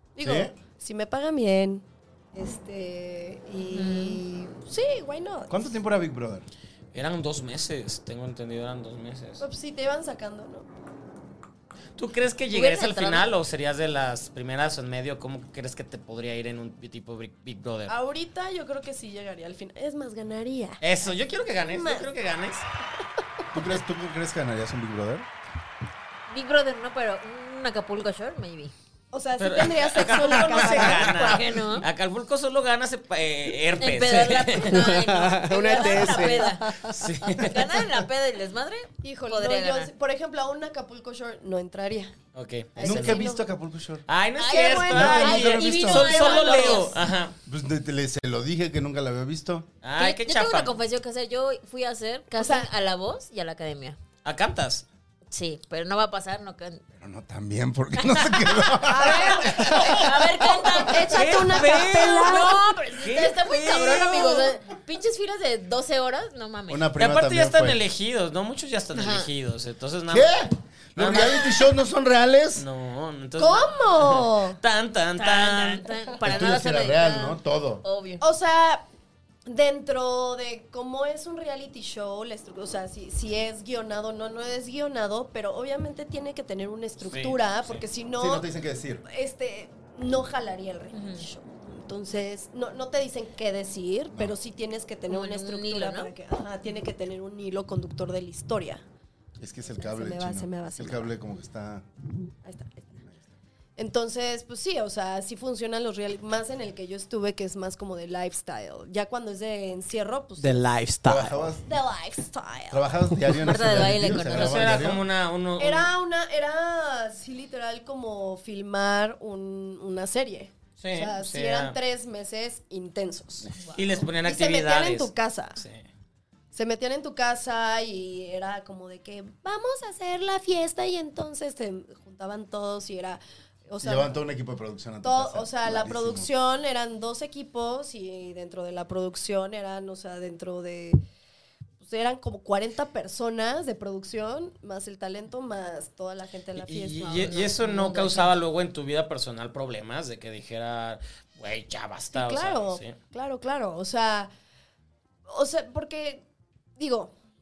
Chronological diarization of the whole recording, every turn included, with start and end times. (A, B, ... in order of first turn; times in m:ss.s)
0:00.2-0:05.6 A
0:00.2-0:00.5 B
0:03.7-0:04.2 C
0:05.5-0:06.4 B
0:06.9-0:09.4 D
0:09.4-0:10.7 A
0:12.0-0:17.9 D
0:12.5-0:13.2 C
0:17.9-0:20.8 A
0:20.8-0:22.6 D
0:21.7-0:22.1 A
0:23.5-0:25.3 B
0:26.3-0:28.7 C
0:29.1-0:31.4 A
0:29.4-0:34.8 D
0:30.5-0:31.9 C
0:33.8-0:36.7 C
0:34.7-0:36.6 E
0:36.8-0:37.7 D
0:37.4-0:39.9 C
0:39.0-0:42.1 A
0:42.3-0:43.2 D
0:42.7-0:43.4 A
0:42.8-0:44.0 B
0:44.1-0:47.3 D
0:44.4-0:46.9 C
0:44.4-0:46.9 A
0:44.9-0:46.3 B
0:47.5-0:49.7 B
0:49.8-0:50.7 D
0:50.0-0:54.0 C
0:52.4-0:52.7 A
0:54.2-0:54.9 D
0:55.3-0:56.8 C
0:57.0-1:00.0 B
0:58.0-1:06.9 C
0:58.9-1:00.0 A
1:00.7-1:02.6 A
1:01.1-1:04.5 D
1:06.7-1:07.8 B
1:07.0-1:10.3 D
1:08.9-1:09.3 C
1:10.1-1:12.6 B
1:11.0-1:11.5 D
1:12.6-1:15.9 D
1:13.4-1:14.6 A
1:15.2-1:18.2 C
1:16.2-1:17.8 B
1:18.2-1:18.8 A
1:19.5-1:28.4 A
1:27.0-1:27.8 D
1:28.2-1:29.0 B
1:29.0-1:38.8 A
1:30.9-1:31.2 C
1:35.1-1:36.1 C
1:39.4-1:41.9 B
1:39.8-1:41.1 A
1:42.4-1:43.0 A
1:43.8-1:50.6 A
1:50.4-1:51.4 E
1:51.0-1:51.7 B
1:51.7-1:52.9 A
1:52.7-1:55.0 B
1:53.4-1:54.9 C
1:54.1-1:55.9 D
1:55.6-2:03.5 A
2:00.8-2:01.7 D
2:03.7-2:05.8 D
2:04.2-2:05.6 A
2:06.5-2:14.2 A
2:13.8-2:16.3 B
2:15.0-2:21.0 A
2:21.8-2:27.5 A
2:26.6-2:32.9 D
2:27.0-2:28.3 C
2:32.1-2:34.3 A
2:35.3-2:36.2 A
2:36.8-2:37.1 A